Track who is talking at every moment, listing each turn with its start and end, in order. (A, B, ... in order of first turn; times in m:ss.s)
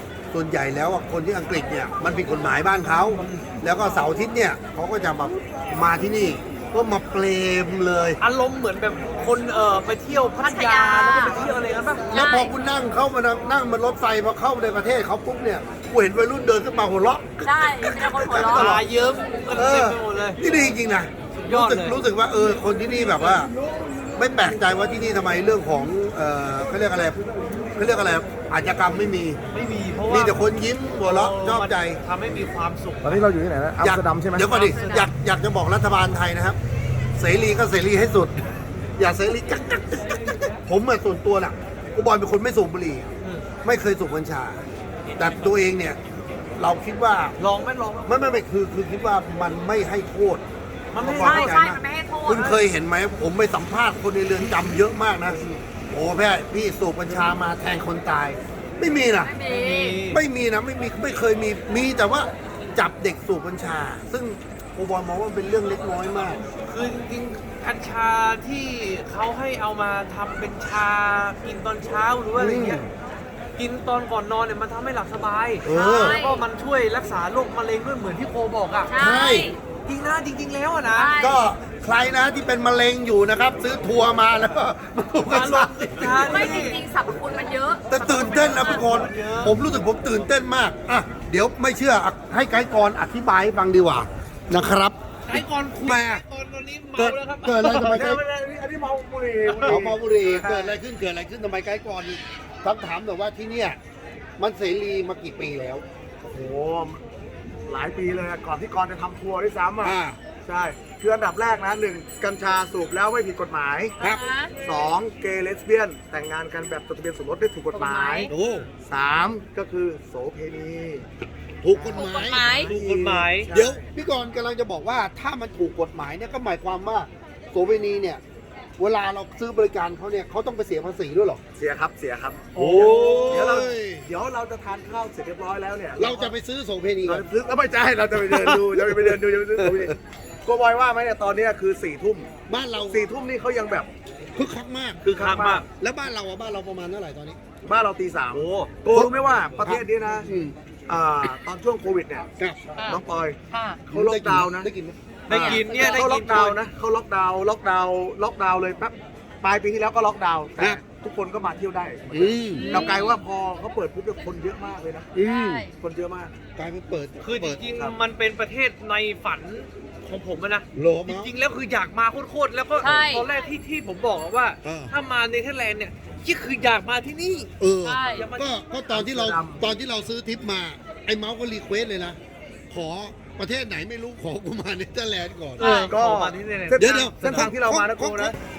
0:00.3-0:08.2 A
0:03.1-0:03.4 B
0:08.2-0:12.1 B
0:10.4-0:11.4 C
0:12.1-0:12.5 C
0:12.1-0:18.8 A
0:17.4-0:18.8 C
0:18.4-0:20.4 B
0:19.5-0:23.5 A
0:21.4-0:22.0 B
0:24.2-0:27.2 A
0:27.7-0:29.4 A
0:29.5-0:30.5 B
0:30.1-0:32.0 A
0:31.0-0:33.2 B
0:33.0-0:34.5 D
0:33.8-0:36.6 A
0:34.4-0:35.1 B
0:37.2-0:38.4 A
0:39.0-0:43.1 A
0:43.2-0:43.5 B
0:43.6-0:44.6 A
0:45.2-0:46.0 A
0:46.6-0:47.4 A
0:47.4-0:48.4 B
0:48.0-0:50.4 A
0:50.9-0:51.6 B
0:51.0-0:59.3 A
0:51.2-0:52.5 C
0:52.3-0:52.7 B
0:59.2-1:00.0 C
0:59.5-1:00.2 B
1:00.1-1:06.4 A
1:06.6-1:12.8 B
1:12.4-1:12.9 A
1:13.6-1:18.9 B
1:15.6-1:16.2 A
1:15.7-1:16.4 C
1:18.8-1:19.6 C
1:19.0-1:19.5 A
1:19.8-1:21.1 B
1:20.9-1:21.4 C
1:21.2-1:26.6 A
1:25.3-1:26.8 B
1:26.1-1:28.8 C
1:27.9-1:36.2 A
1:27.9-1:29.6 B
1:35.3-1:38.1 B
1:37.0-1:38.2 A
1:37.6-1:40.8 D
1:39.5-1:39.8 B
1:39.7-1:43.8 A
1:44.4-1:45.8 A
1:46.2-1:47.0 D
1:47.7-1:53.9 D
1:49.8-1:50.2 A
1:54.0-1:54.5 C
1:54.6-2:01.1 D
1:57.7-1:58.3 C
1:58.3-1:58.7 A
2:01.6-2:02.5 A
2:01.7-2:03.9 D
2:01.9-2:02.7 C
2:02.4-2:03.5 B
2:03.5-2:08.2 A
2:08.8-2:11.4 A
2:11.5-2:16.3 D
2:12.5-2:13.6 B
2:12.6-2:14.1 A
2:16.0-2:17.2 A
2:17.0-2:22.3 D
2:18.3-2:19.9 A
2:22.5-2:23.0 A
2:22.9-2:23.9 D
2:24.3-2:25.0 A
2:25.0-2:25.6 D
2:25.0-2:25.6 B
2:25.7-2:27.4 A
2:27.6-2:30.3 D
2:28.4-2:28.7 B
2:29.6-2:30.5 A
2:30.9-2:34.7 D
2:33.5-2:33.8 C
2:33.9-2:35.6 A
2:35.3-2:36.6 B
2:35.3-2:45.1 D
2:35.7-2:36.0 C
2:42.1-2:42.9 A
2:42.5-2:43.2 C
2:45.1-2:45.6 A
2:45.2-2:45.7 C
2:45.8-2:46.3 D
2:46.5-2:47.6 A
2:47.2-2:57.5 B
2:50.7-2:51.3 A
2:52.8-2:53.2 C
2:54.6-2:54.9 A
2:57.6-3:02.2 A
2:57.8-2:58.2 C
2:58.1-2:58.9 B
2:58.9-2:59.7 D
3:02.7-3:05.7 A
3:05.6-3:06.0 C
3:05.6-3:07.4 B
3:05.7-3:08.3 D
3:06.8-3:08.3 A